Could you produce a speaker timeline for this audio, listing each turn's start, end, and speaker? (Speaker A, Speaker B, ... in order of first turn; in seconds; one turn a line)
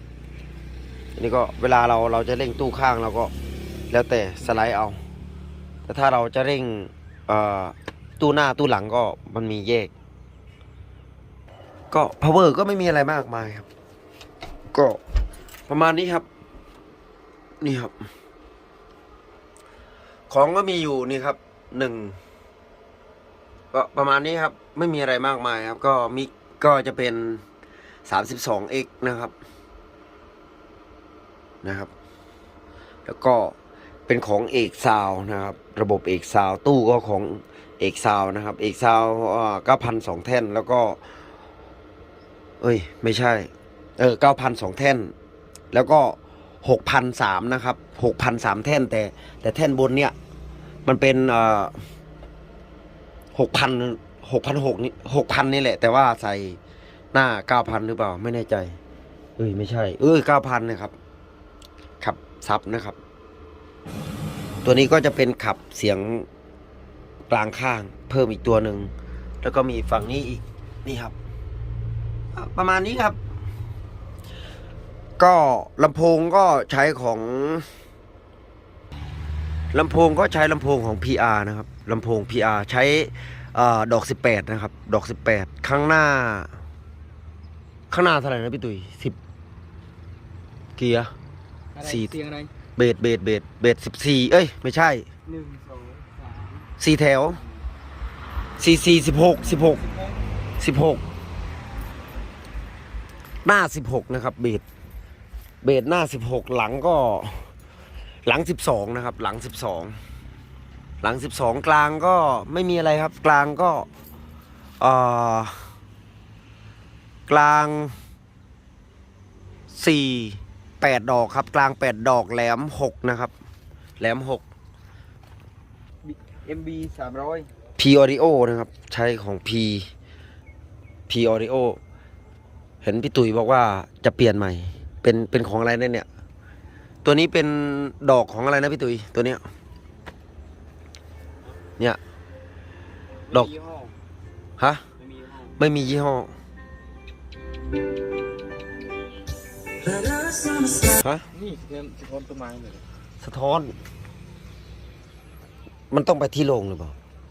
Speaker A: 1.2-3.3
Speaker A: 3.9-5.0
Speaker A: 5.9-9.9
Speaker A: 11.9-13.7
Speaker A: 14.7-15.0
Speaker A: 15.7-16.3
Speaker A: 17.6-17.9
Speaker A: 20.3-22.2
Speaker A: 23.7-27.4
Speaker A: 28.1-29.3
Speaker A: 31.6-31.9
Speaker A: 33.1-33.5
Speaker A: 34.1-41.0
Speaker A: 42.6-45.1
Speaker A: 45.7-50.1
Speaker A: 50.9-51.7
Speaker A: 53.3-56.6
Speaker A: 57.1-58.8
Speaker A: 59.4-60.9
Speaker A: 62.0-63.0
Speaker A: 64.6-66.3
Speaker A: 67.3-71.1
Speaker A: 72.3-73.2
Speaker A: 75.2-77.7
Speaker A: 79.7-86.5
Speaker A: 87.9-89.2
Speaker A: 90.8-91.1
Speaker B: 91.8-92.5
Speaker A: 91.8-92.2
Speaker A: 92.8-95.1
Speaker B: 95.3-96.7
Speaker A: 96.8-97.4
Speaker A: 98.6-99.8
Speaker A: 100.6-101.0
Speaker A: 103.5-104.6
Speaker A: 105.6-107.5
Speaker A: 108.3-110.0
Speaker A: 111.0-113.9
Speaker A: 114.8-115.7
Speaker A: 117.3-117.9
Speaker A: 119.8-123.3
Speaker A: 124.0-124.4
Speaker B: 126.0-127.5
Speaker A: 127.8-129.9
Speaker A: 131.1-131.8
Speaker A: 132.8-136.1
Speaker A: 137.0-139.4
Speaker B: 143.3-143.9
Speaker B: 145.0-145.4
Speaker A: 145.6-146.3
Speaker B: 149.8-152.8
Speaker A: 151.0-151.2
Speaker A: 153.2-153.7
Speaker A: 155.9-156.9